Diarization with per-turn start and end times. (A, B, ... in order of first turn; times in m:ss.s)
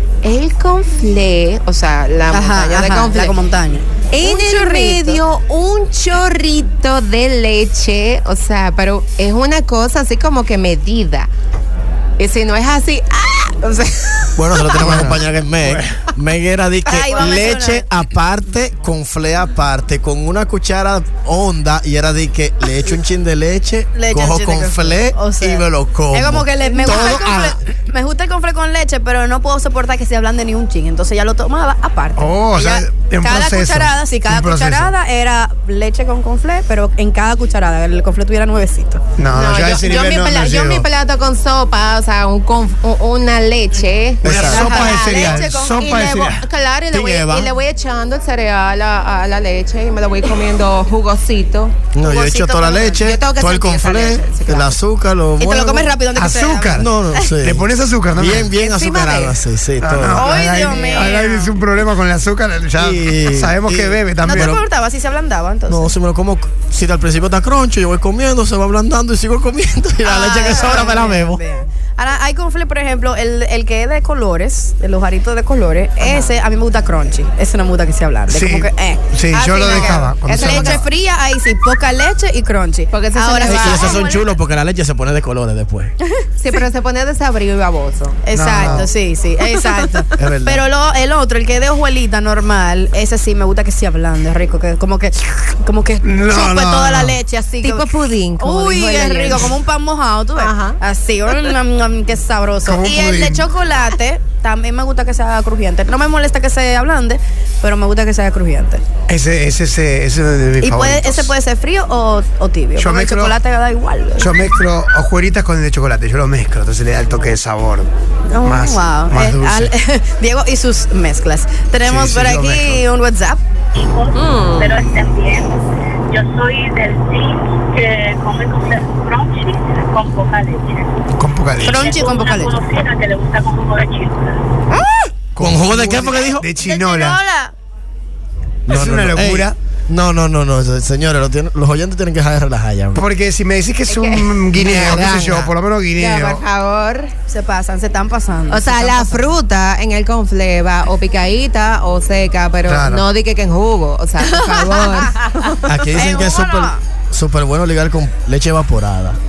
0:00.2-0:03.4 A
0:02.3-0:05.2 B
0:04.1-0:11.3 A
0:12.2-0:15.0 A
0:14.4-0:27.6 C
0:14.8-0:16.1 D
0:16.9-0:17.9 B
0:17.0-0:17.3 A
0:23.9-0:39.0 B
0:26.6-0:27.3 A
0:32.2-0:34.9 D
0:39.2-0:40.9 D
0:39.3-0:51.8 A
0:44.2-0:44.7 C
0:44.2-0:46.4 D
0:44.3-0:46.2 B
0:46.9-0:47.5 C
0:51.9-0:56.0 C
0:52.0-0:53.0 B
0:52.9-0:54.8 A
0:55.4-0:57.2 B
0:56.1-0:58.5 D
0:56.8-1:00.3 C
0:58.6-0:59.4 A
0:59.8-1:04.5 D
1:00.1-1:01.6 B
1:00.6-1:01.2 A
1:02.7-1:04.6 C
1:04.2-1:05.9 B
1:05.7-1:11.4 C
1:10.0-1:24.4 B
1:16.0-1:16.4 A
1:18.3-1:20.9 D
1:19.3-1:20.9 A
1:22.9-1:24.0 A
1:23.4-1:25.9 C
1:26.4-1:28.9 A
1:28.2-1:48.8 B
1:28.3-1:28.9 D
1:30.2-1:30.6 C
1:36.0-1:37.2 D
1:37.6-1:39.6 A
1:40.4-1:40.8 A
1:42.6-1:43.4 D
1:49.1-1:51.3 D
1:50.6-1:54.4 B
1:52.8-1:53.4 D
1:54.2-1:57.9 D
1:58.3-2:03.4 B
1:58.4-1:59.7 D
2:01.8-2:02.8 D
2:03.8-2:10.9 E
2:04.1-2:04.8 A
2:11.2-2:11.9 D
2:11.6-2:12.6 B
2:11.8-2:14.4 E
2:14.7-2:15.0 B
2:15.3-2:17.2 D
2:15.4-2:16.5 C
2:16.6-2:17.5 B
2:18.7-2:19.6 D
2:18.7-2:23.0 C
2:22.9-2:26.4 D
2:23.9-2:27.1 A
2:27.3-2:29.3 B
2:28.5-2:35.8 A
2:32.6-2:33.0 D
2:34.4-2:35.1 B
2:35.6-2:39.2 C
2:35.9-2:36.8 B